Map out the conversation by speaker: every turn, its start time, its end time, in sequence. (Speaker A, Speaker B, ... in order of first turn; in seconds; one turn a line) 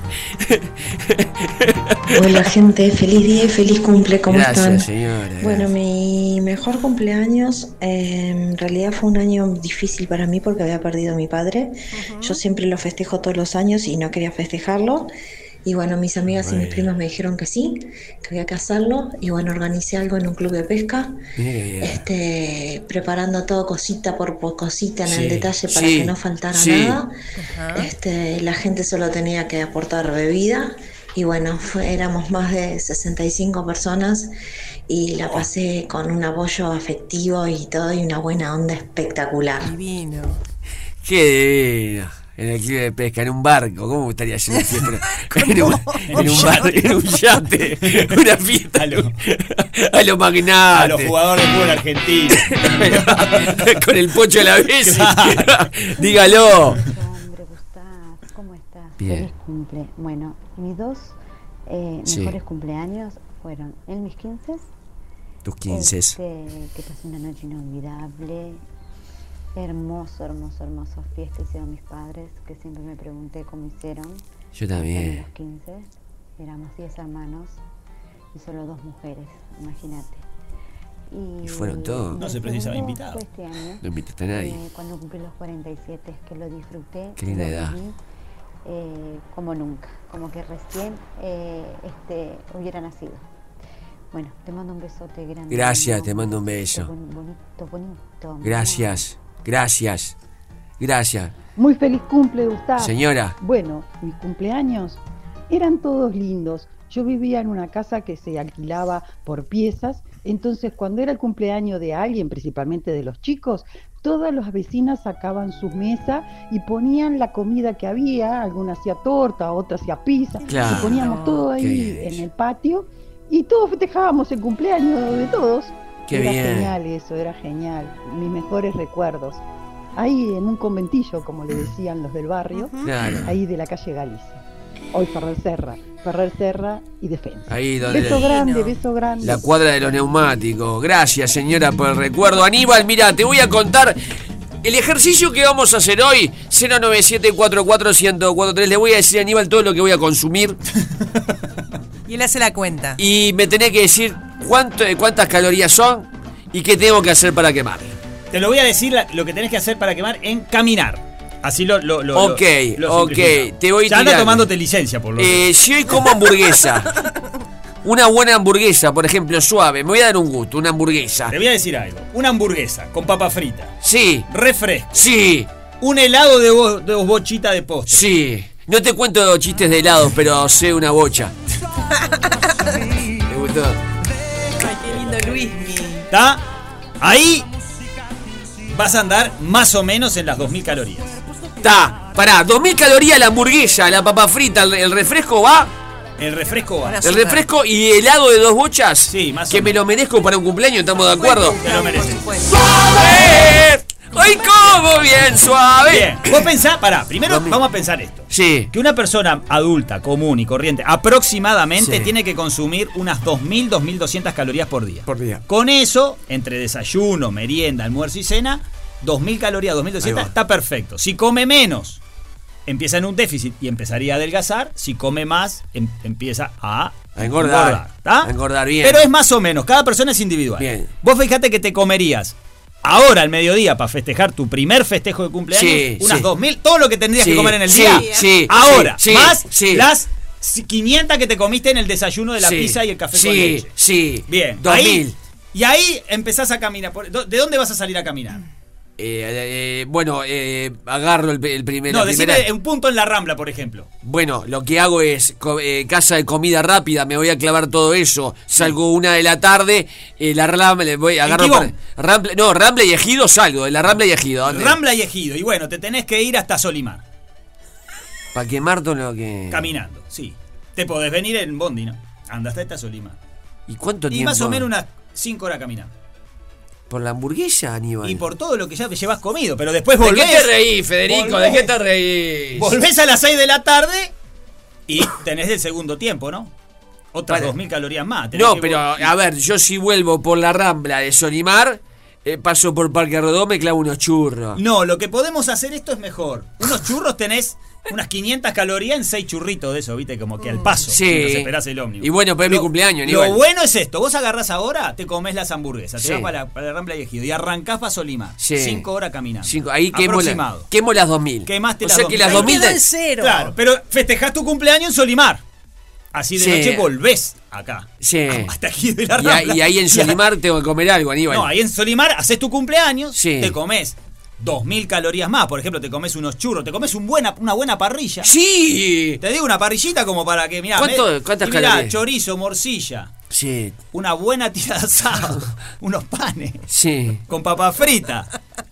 Speaker A: 0.4-2.4
Speaker B: 2.1-4.9
Speaker A: 4.3-5.7
Speaker B: 5.4-15.1
Speaker C: 11.9-12.4
Speaker B: 15.7-21.1
Speaker A: 16.3-16.9
Speaker A: 21.4-22.1
Speaker B: 21.8-27.1
Speaker A: 25.1-27.0
Speaker C: 27.4-27.9
Speaker B: 27.8-34.3
Speaker B: 34.9-39.7
Speaker C: 39.6-40.4
Speaker A: 41.0-51.1
Speaker C: 44.5-46.7
Speaker D: 46.1-46.9
Speaker D: 47.8-48.2
Speaker D: 48.8-49.1
Speaker D: 50.7-53.5
Speaker A: 52.3-56.8
Speaker D: 54.8-55.5
Speaker E: 56.0-64.7
Speaker A: 59.0-59.3
Speaker A: 62.1-62.4
Speaker A: 65.5-66.2
Speaker E: 65.7-68.6
Speaker E: 69.5-74.2
Speaker A: 74.5-75.2
Speaker E: 74.8-77.6
Speaker E: 78.3-80.2
Speaker E: 81.1-88.0
Speaker A: 81.4-82.2
Speaker D: 82.2-83.2
Speaker A: 83.8-84.6
Speaker A: 87.2-87.8
Speaker E: 88.7-93.2
Speaker E: 94.1-99.1
Speaker A: 95.5-96.9
Speaker A: 98.4-100.1
Speaker A: 100.8-101.3
Speaker F: 101.6-129.4
Speaker A: 102.8-103.4
Speaker A: 120.5-122.2
Speaker C: 120.6-121.4
Speaker A: 126.1-126.7
Speaker F: 130.0-134.4
Speaker C: 132.5-132.9
Speaker A: 132.8-133.3
Speaker F: 134.9-139.5
Speaker A: 137.5-138.3
Speaker C: 138.0-138.8
Speaker A: 139.2-144.0
Speaker A: 144.6-150.6
Speaker C: 152.1-153.0
Speaker A: 153.0-158.0
Speaker D: 158.3-165.5
Speaker A: 162.1-164.5
Speaker A: 165.2-166.9
Speaker A: 167.8-171.3
Speaker D: 171.3-173.8
Speaker A: 173.8-174.2
Speaker D: 174.3-175.1
Speaker A: 174.9-175.5
Speaker D: 175.8-178.1
Speaker A: 177.9-181.3
Speaker A: 183.3-183.8
Speaker C: 184.6-186.1
Speaker D: 186.1-186.4
Speaker D: 187.0-187.5
Speaker D: 188.7-191.2
Speaker A: 191.6-195.7
Speaker D: 196.2-197.1
Speaker C: 196.8-197.5
Speaker A: 197.0-201.6
Speaker D: 199.1-199.8
Speaker C: 201.1-202.7
Speaker D: 201.6-202.3
Speaker A: 202.8-206.3
Speaker D: 205.9-222.0
Speaker A: 207.3-207.6
Speaker A: 208.3-208.7
Speaker A: 211.8-212.1
Speaker A: 215.1-215.4
Speaker A: 220.0-220.3
Speaker D: 222.7-243.7
Speaker A: 227.2-229.1
Speaker A: 230.6-230.9
Speaker A: 235.5-236.3
Speaker A: 237.2-239.9
Speaker C: 237.8-238.3
Speaker A: 242.4-245.2
Speaker D: 244.3-248.4
Speaker A: 249.0-252.5
Speaker D: 251.9-253.9
Speaker A: 254.0-264.8
Speaker D: 261.2-261.8
Speaker D: 264.4-267.0
Speaker A: 268.4-269.7
Speaker D: 269.5-273.2
Speaker A: 273.7-274.7
Speaker D: 274.1-275.9
Speaker A: 276.9-278.2
Speaker D: 278.0-280.5
Speaker A: 280.0-282.8
Speaker D: 281.1-281.7
Speaker D: 282.6-284.1
Speaker D: 284.9-286.5
Speaker D: 287.1-289.1
Speaker A: 288.3-294.6
Speaker D: 294.6-310.7
Speaker C: 300.4-300.8
Speaker A: 300.9-303.4
Speaker A: 306.0-306.3
Speaker A: 308.4-308.9
Speaker A: 309.4-312.8
Speaker D: 311.5-315.4
Speaker C: 312.2-313.5
Speaker D: 316.1-320.2
Speaker A: 316.4-316.9
Speaker A: 318.0-318.5
Speaker A: 319.2-321.5
Speaker D: 321.3-328.3
Speaker A: 323.1-323.6
Speaker A: 328.2-329.2
Speaker D: 329.2-333.1
Speaker A: 330.8-332.0
Speaker A: 333.3-333.8
Speaker D: 333.9-336.7
Speaker A: 336.7-337.2
Speaker D: 337.3-338.3